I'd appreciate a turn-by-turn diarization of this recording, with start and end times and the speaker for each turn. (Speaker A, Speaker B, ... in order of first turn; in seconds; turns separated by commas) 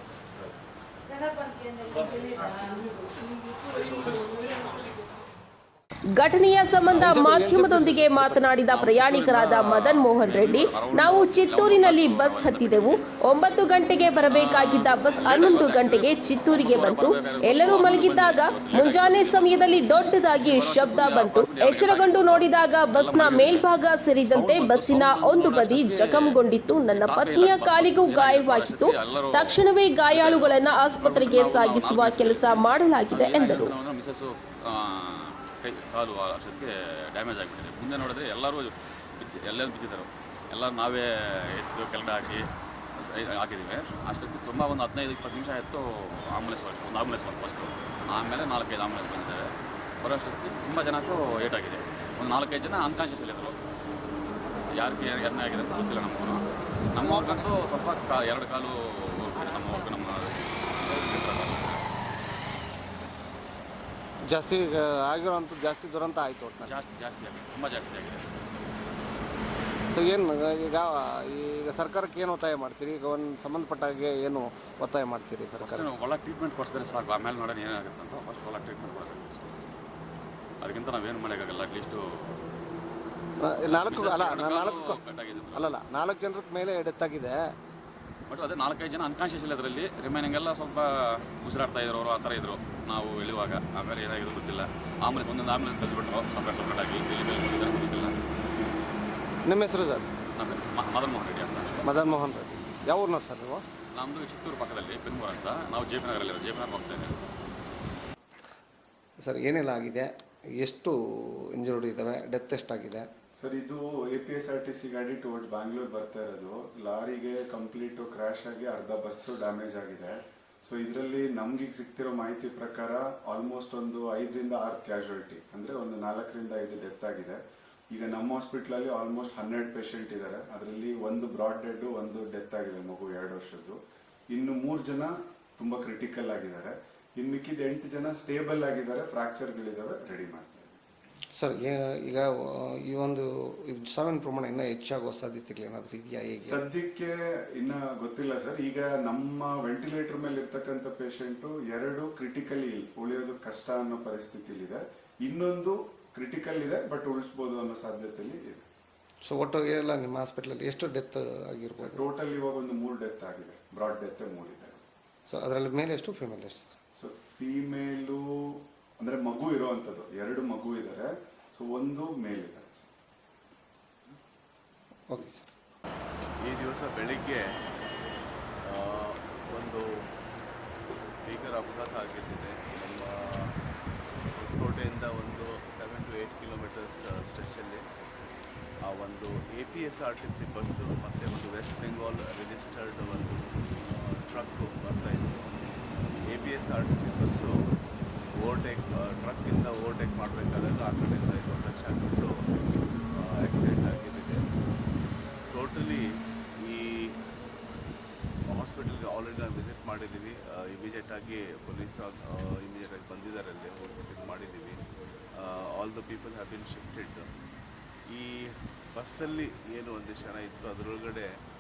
Speaker A: 6.1-33.7, Speaker B: 6.9-8.4, Speaker C: 8.7-13.0, Speaker C: 14.3-23.7, Speaker C: 24.3-26.4, Speaker C: 26.9-53.6, Speaker C: 54.8-61.8, Speaker B: 64.3-66.7, Speaker C: 66.6-68.3, Speaker B: 69.9-75.9, Speaker C: 75.6-79.6, Speaker C: 80.6-82.3, Speaker B: 83.4-84.9, Speaker C: 83.6-85.7, Speaker B: 85.5-87.4, Speaker C: 88.3-98.1, Speaker B: 99.5-100.1, Speaker C: 100.4-101.8, Speaker B: 101.8-103.6, Speaker C: 104.0-107.2, Speaker B: 109.2-113.1, Speaker D: 113.4-133.8, Speaker D: 134.3-140.8, Speaker B: 141.4-146.6, Speaker D: 146.4-158.6, Speaker B: 159.2-162.0, Speaker D: 161.8-164.8, Speaker B: 165.3-166.8, Speaker D: 167.0-172.9, Speaker B: 175.1-175.5, Speaker E: 176.4-177.4, Speaker E: 178.6-180.0, Speaker E: 181.2-183.5, Speaker E: 184.4-187.8, Speaker E: 188.8-195.7, Speaker E: 196.3-197.7, Speaker E: 198.3-202.4, Speaker E: 203.1-204.5, Speaker E: 205.5-207.2, Speaker E: 208.5-214.8, Speaker E: 215.3-217.3, Speaker E: 218.1-221.3